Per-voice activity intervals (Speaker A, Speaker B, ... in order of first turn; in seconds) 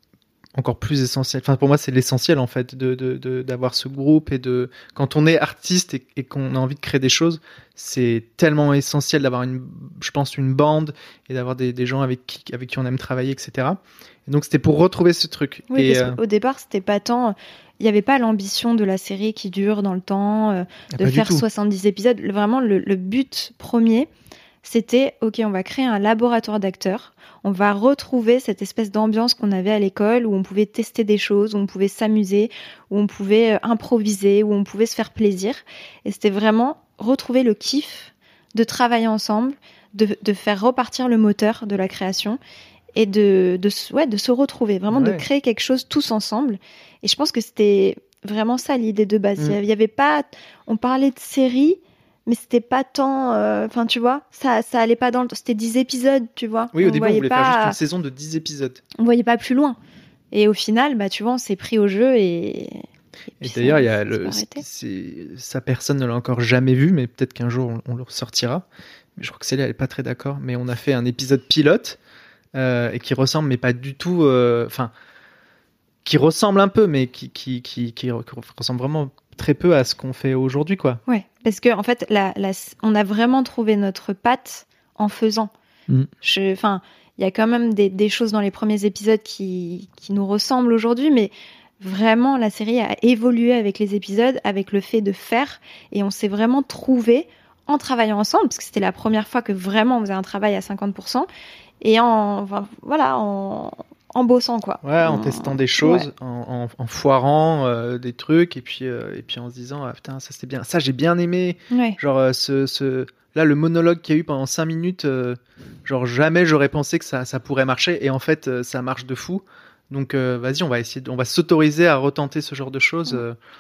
Speaker A: 0.5-16.2, 20.9-21.4, 44.9-45.2, 56.7-58.8, 63.4-68.6, 69.2-72.0, 72.5-74.9, 76.0-81.0, 104.8-123.3
Speaker B: 15.7-24.1, 24.6-42.4, 42.9-57.8, 59.0-59.8, 60.3-62.8, 63.4-64.6, 81.1-85.5, 86.2-101.3, 101.8-106.1, 111.7-112.0